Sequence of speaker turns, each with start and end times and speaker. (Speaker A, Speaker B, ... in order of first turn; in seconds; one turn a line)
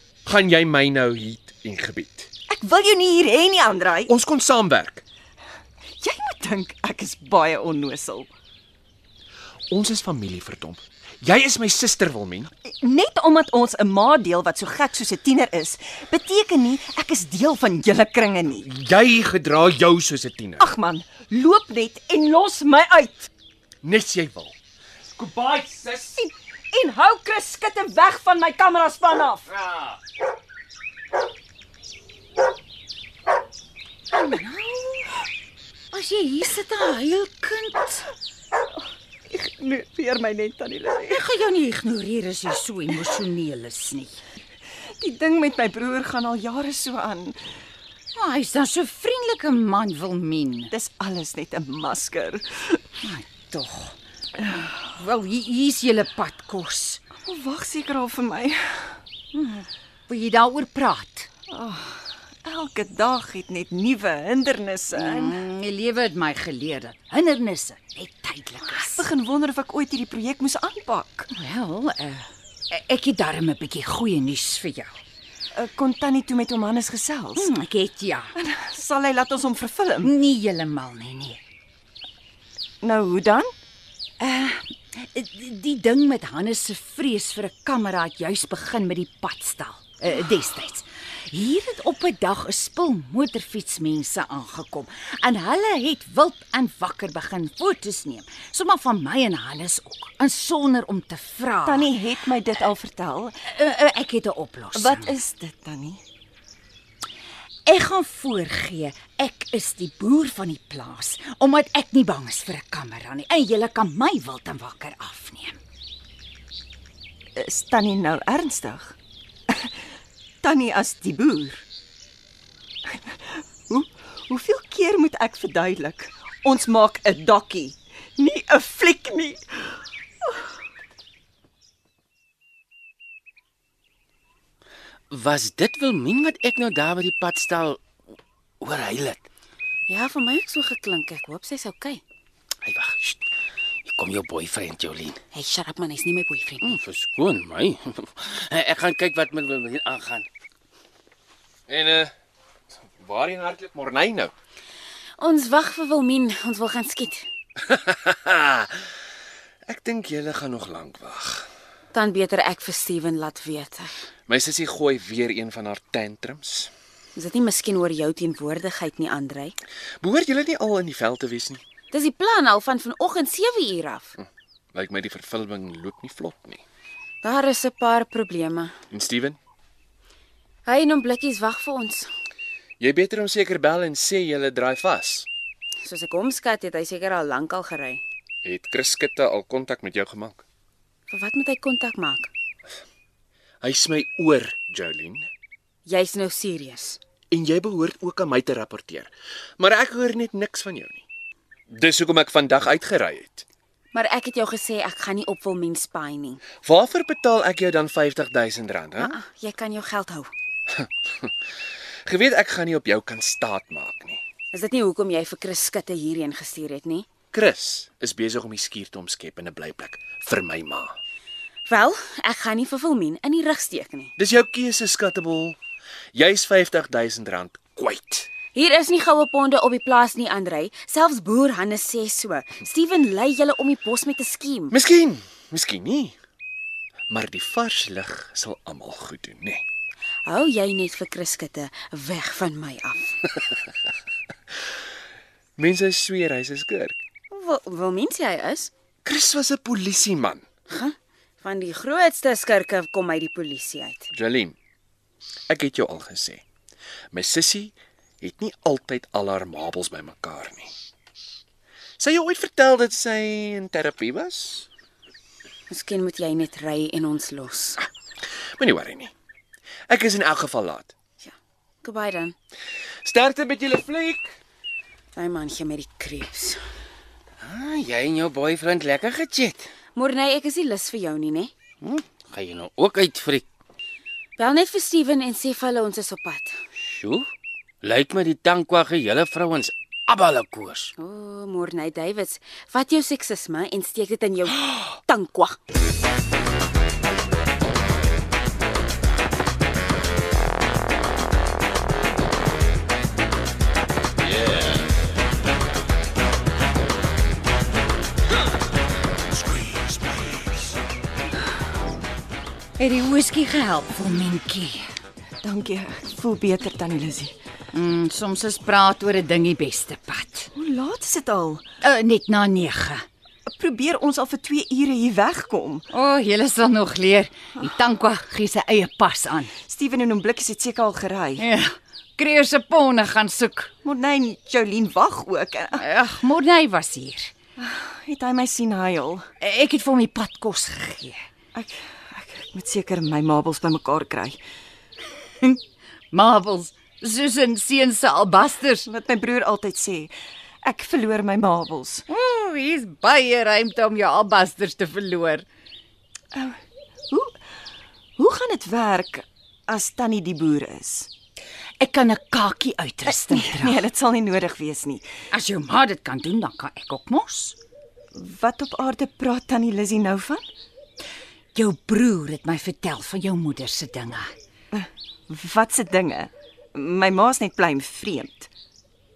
Speaker A: 0.2-2.3
Speaker B: 2.5-4.1
Speaker A: 4.1-5.0
Speaker B: 6.0-8.3
Speaker A: 9.7-12.5
Speaker B: 12.7-18.7
Speaker A: 18.6-20.7
Speaker B: 20.6-23.3
Speaker A: 23.8-24.6
Speaker A: 25.2-25.9
Speaker B: 26.0-29.5
Speaker C: 34.1-35.1
Speaker C: 35.9-38.1
Speaker B: 39.3-41.2
Speaker C: 41.1-44.2
Speaker B: 45.0-47.4
Speaker C: 48.1-50.7
Speaker B: 50.7-52.8
Speaker C: 53.0-57.0
Speaker B: 57.2-59.0
Speaker C: 60.1-61.3
Speaker B: 61.5-65.4
Speaker C: 64.9-69.0
Speaker B: 68.7-71.3
Speaker C: 71.3-75.0
Speaker B: 75.5-77.5
Speaker C: 77.4-78.3
Speaker B: 78.4-80.1
Speaker C: 80.0-81.4
Speaker B: 82.8-83.5
Speaker C: 84.2-101.9
Speaker B: 101.7-103.4
Speaker C: 103.5-105.1
Speaker B: 104.8-106.0
Speaker C: 107.7-115.6
Speaker B: 117.4-119.0
Speaker B: 120.4-121.6
Speaker B: 122.9-129.8
Speaker D: 135.1-137.8
Speaker D: 138.6-139.2
Speaker E: 139.9-142.0
Speaker D: 142.6-143.2
Speaker D: 143.8-145.2
Speaker E: 145.3-146.8
Speaker D: 146.6-150.3
Speaker A: 151.7-152.1
Speaker A: 153.0-154.3
Speaker E: 155.2-157.2
Speaker A: 157.6-158.9
Speaker A: 159.7-161.5
Speaker E: 161.9-163.9
Speaker A: 164.3-166.7
Speaker E: 167.2-169.6
Speaker A: 170.0-171.6
Speaker E: 171.9-174.2
Speaker A: 174.2-176.6
Speaker E: 177.2-178.7
Speaker A: 178.9-179.4
Speaker E: 180.7-182.1
Speaker A: 182.8-185.3
Speaker E: 185.8-188.0
Speaker A: 188.4-190.4
Speaker E: 191.1-192.3
Speaker A: 193.6-195.3
Speaker E: 195.9-197.0
Speaker A: 197.3-201.0
Speaker A: 201.7-203.4
Speaker E: 203.9-206.4
Speaker A: 206.6-209.2
Speaker E: 209.0-210.3
Speaker A: 210.8-211.3
Speaker A: 212.1-214.2
Speaker E: 214.5-217.1
Speaker A: 217.3-221.0
Speaker E: 221.7-224.1
Speaker A: 224.2-225.6
Speaker A: 226.1-228.3
Speaker E: 228.5-234.7
Speaker A: 234.7-236.2
Speaker A: 237.1-239.7
Speaker E: 240.3-243.3
Speaker A: 245.6-247.0
Speaker E: 247.3-248.7
Speaker A: 249.1-250.4
Speaker E: 250.7-254.1
Speaker A: 254.1-254.6
Speaker A: 255.5-256.4
Speaker A: 257.1-260.7
Speaker A: 262.0-264.7
Speaker E: 265.7-267.9
Speaker A: 268.6-269.1
Speaker A: 269.9-270.9
Speaker E: 271.2-272.4
Speaker A: 273.0-274.3
Speaker E: 275.2-276.6
Speaker D: 277.4-279.7
Speaker E: 280.0-281.5
Speaker D: 281.8-283.4
Speaker E: 284.4-286.5
Speaker D: 286.8-287.3
Speaker D: 287.8-290.9
Speaker E: 291.0-295.6
Speaker C: 312.8-314.8
Speaker B: 315.4-317.3
Speaker C: 317.7-320.5
Speaker B: 320.6-321.7
Speaker C: 321.8-323.0
Speaker B: 323.5-325.9
Speaker C: 325.9-329.5
Speaker B: 329.7-331.4
Speaker C: 331.4-333.7
Speaker B: 333.8-335.8
Speaker C: 335.8-337.3
Speaker B: 337.6-339.2
Speaker C: 339.4-341.2
Speaker B: 341.5-344.4
Speaker C: 346.1-348.9
Speaker B: 348.9-350.1
Speaker B: 350.6-352.0
Speaker C: 352.1-355.4
Speaker B: 358.2-361.1
Speaker C: 361.8-363.8
Speaker B: 363.1-365.1
Speaker C: 365.3-367.6
Speaker B: 368.1-370.5
Speaker C: 371.6-374.3
Speaker B: 374.7-378.5